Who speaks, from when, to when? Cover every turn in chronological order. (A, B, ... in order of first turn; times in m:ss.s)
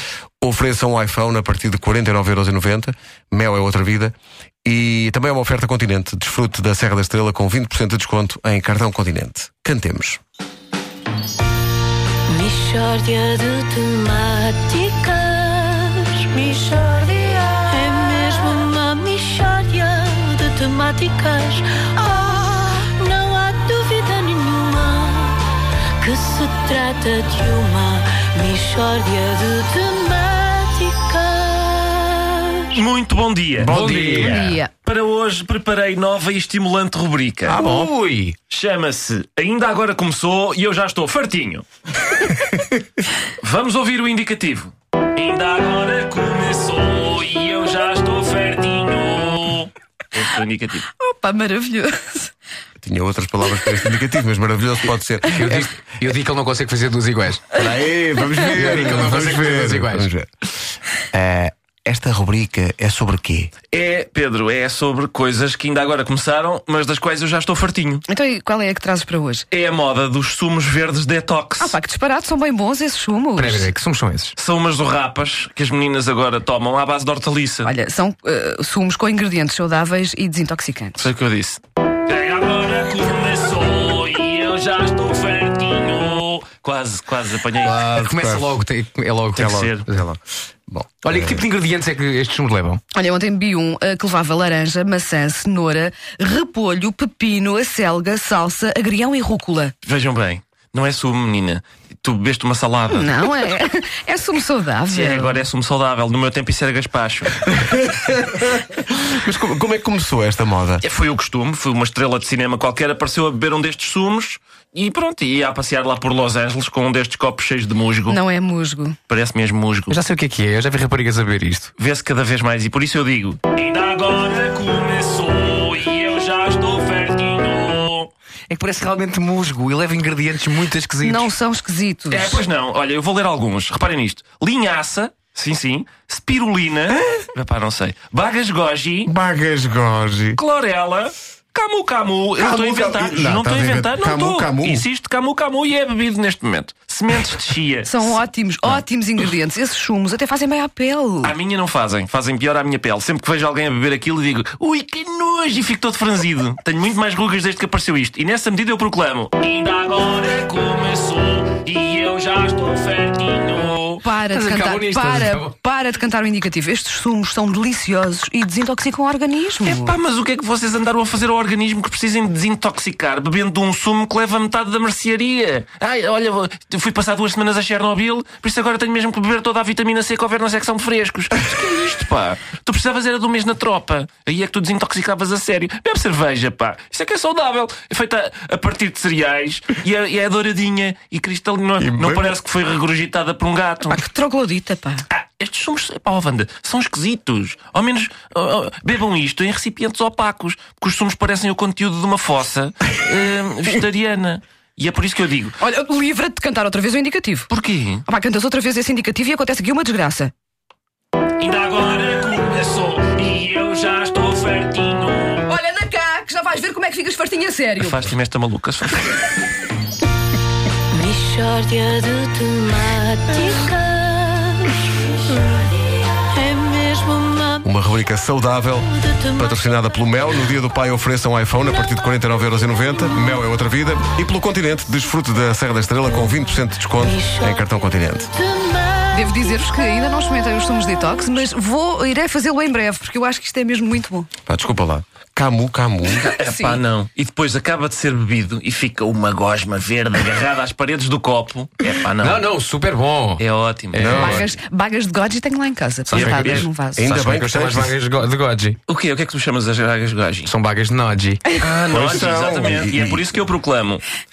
0:00.4-0:10.2 A
0:12.3-0:32.8 B
0:32.7-0:37.6 C
0:33.6-0:34.6 D
0:33.6-0:34.1 A
0:34.1-0:34.7 E
0:37.5-0:38.3 D
0:37.5-0:37.9 A
0:38.5-0:41.6 C
0:43.4-0:50.8 C
0:51.0-0:52.3 E
0:52.8-0:55.6 A
0:53.6-0:53.8 E
0:55.3-0:57.6 D
0:57.5-1:00.3 A
0:58.4-1:00.1 D
1:01.1-1:03.5 A
1:03.7-1:08.0 C
1:08.1-1:09.4 E
1:09.5-1:11.8 C
1:11.6-1:13.7 E
1:13.4-1:14.4 D
1:14.4-1:17.7 C
1:17.6-1:21.1 E
1:21.0-1:27.9 C
1:27.6-1:30.1 D
1:27.7-1:28.5 A
1:29.4-1:29.9 C
1:29.5-1:30.2 A
1:30.7-1:31.4 A
1:31.0-1:32.8 D
1:32.9-1:39.7 E
1:39.8-1:43.3 C
1:42.9-1:45.4 E
1:44.9-1:47.5 C
1:47.6-1:48.3 A
1:49.0-1:50.8 A
1:50.8-1:58.2 C
1:58.1-1:59.0 E
1:59.1-2:00.0 C
1:59.9-2:01.7 D
2:01.8-2:08.1 C
2:08.5-2:11.3 D
2:11.0-2:12.4 E
2:12.1-2:19.1 C
2:19.1-2:20.4 A
2:20.4-2:28.2 C
2:22.4-2:24.8 A
2:27.9-2:31.3 E
2:31.2-2:44.0 C
2:44.0-2:49.9 E
2:44.2-2:45.5 D
2:49.6-3:14.0 C
3:11.8-3:12.3 A
3:13.9-3:15.0 E
3:15.1-3:25.6 C
3:25.6-3:27.5 E
3:27.5-3:28.0 C
3:28.1-3:30.3 E
3:31.4-3:35.4 C
3:35.4-3:38.0 E
3:37.8-3:39.2 C
3:40.9-3:48.0 B
3:47.6-3:58.3 A
3:48.7-3:49.6 B
3:57.0-3:59.5 B
3:59.1-4:04.3 E
4:04.4-4:06.3 A
4:06.1-4:06.8 E
4:06.2-4:12.5 C
4:12.2-4:14.5 D
4:13.4-4:14.4 C
4:14.0-4:14.5 A
4:14.1-4:17.2 E
4:16.0-4:18.8 D
4:16.1-4:16.7 C
4:17.0-4:17.9 A
4:18.9-4:20.5 C
4:20.4-4:21.4 D
4:21.6-4:24.0 C
4:21.9-4:23.2 A